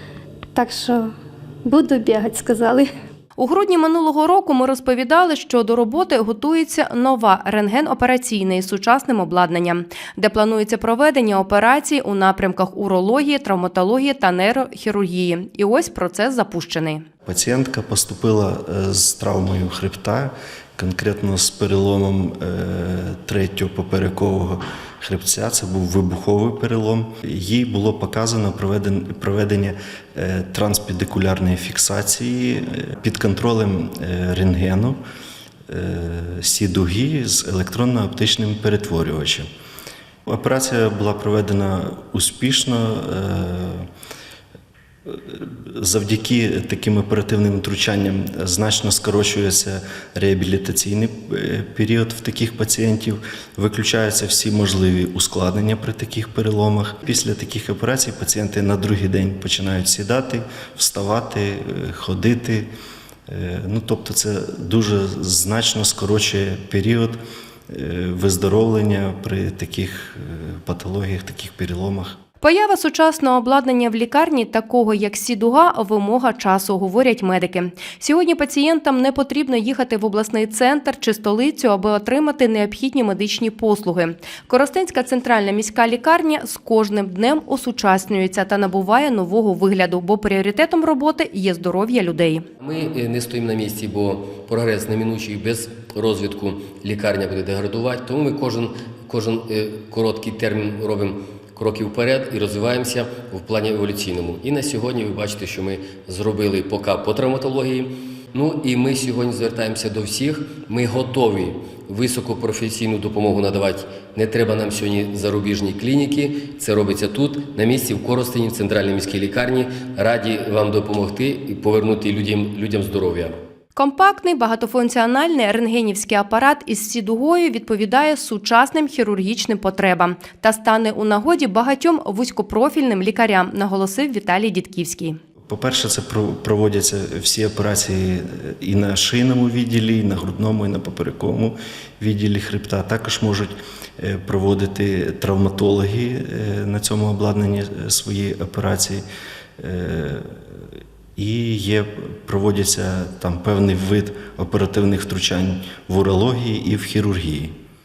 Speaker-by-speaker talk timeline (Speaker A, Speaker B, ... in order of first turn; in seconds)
Speaker A: 0.5-1.1, 1.6-2.9
Speaker B: 3.4-17.0, 72.4-92.4, 123.7-135.2
Speaker C: 17.2-35.0, 35.7-39.5, 40.3-43.9, 45.0-62.7, 63.3-72.2, 135.5-149.0, 149.6-150.6, 151.2-157.5
Speaker D: 92.6-123.3